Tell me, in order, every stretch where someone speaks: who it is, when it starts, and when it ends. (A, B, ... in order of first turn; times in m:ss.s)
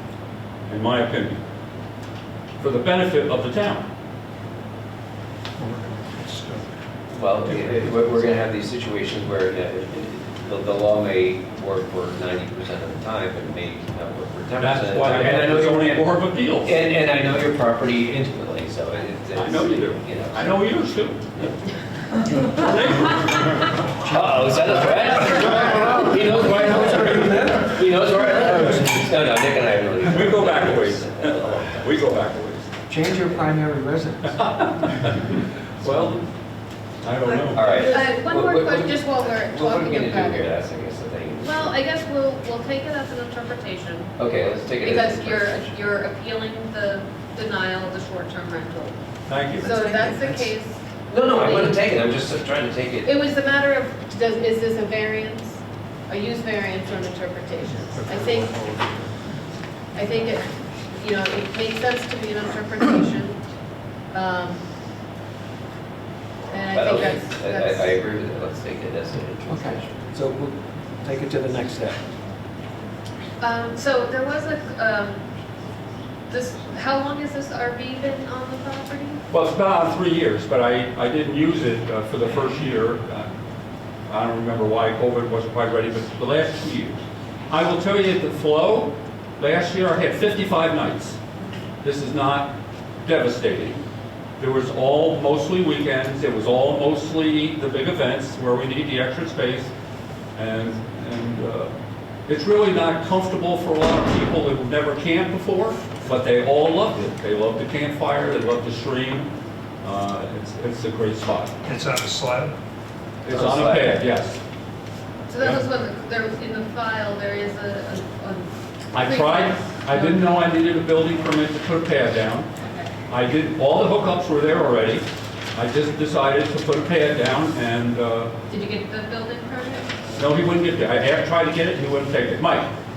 0:00.7-0:01.4 A
0:02.6-0:03.9 A
0:05.6-0:06.7 B
0:07.1-0:16.1 C
0:14.6-0:16.8 A
0:16.6-0:20.5 C
0:19.3-0:21.2 A
0:22.5-0:23.4 A
0:24.0-0:32.0 C
0:25.6-0:27.6 D
0:30.0-0:32.7 A
0:32.9-0:34.6 D
0:34.4-0:36.2 A
0:37.0-0:37.9 A
0:37.5-0:41.7 C
0:37.8-0:40.5 E
0:41.4-0:44.2 E
0:44.2-0:45.7 C
0:44.8-0:49.0 E
0:49.3-0:49.8 A
0:49.6-0:50.8 E
0:49.6-0:50.5 D
0:51.1-0:53.1 C
0:51.3-0:51.7 E
0:53.0-0:58.7 E
0:58.0-0:59.0 B
0:59.9-1:03.4 E
1:04.1-1:04.6 E
1:06.5-1:07.9 E
1:06.7-1:10.1 C
1:09.5-1:12.0 D
1:13.4-1:15.2 E
1:16.3-1:19.2 E
1:19.3-1:23.3 A
1:24.1-1:31.2 A
1:31.8-1:33.8 A
1:34.4-1:39.7 A
1:40.4-1:41.7 A
1:42.3-1:49.3 A
1:49.8-1:51.5 A
1:51.6-1:52.5 B
1:53.2-1:54.4 A
1:53.3-1:54.0 C
1:55.3-2:00.2 E
1:58.9-2:02.5 A
2:02.6-2:02.9 E
2:03.1-2:08.3 A
2:08.5-2:10.0 E
2:10.2-2:12.7 A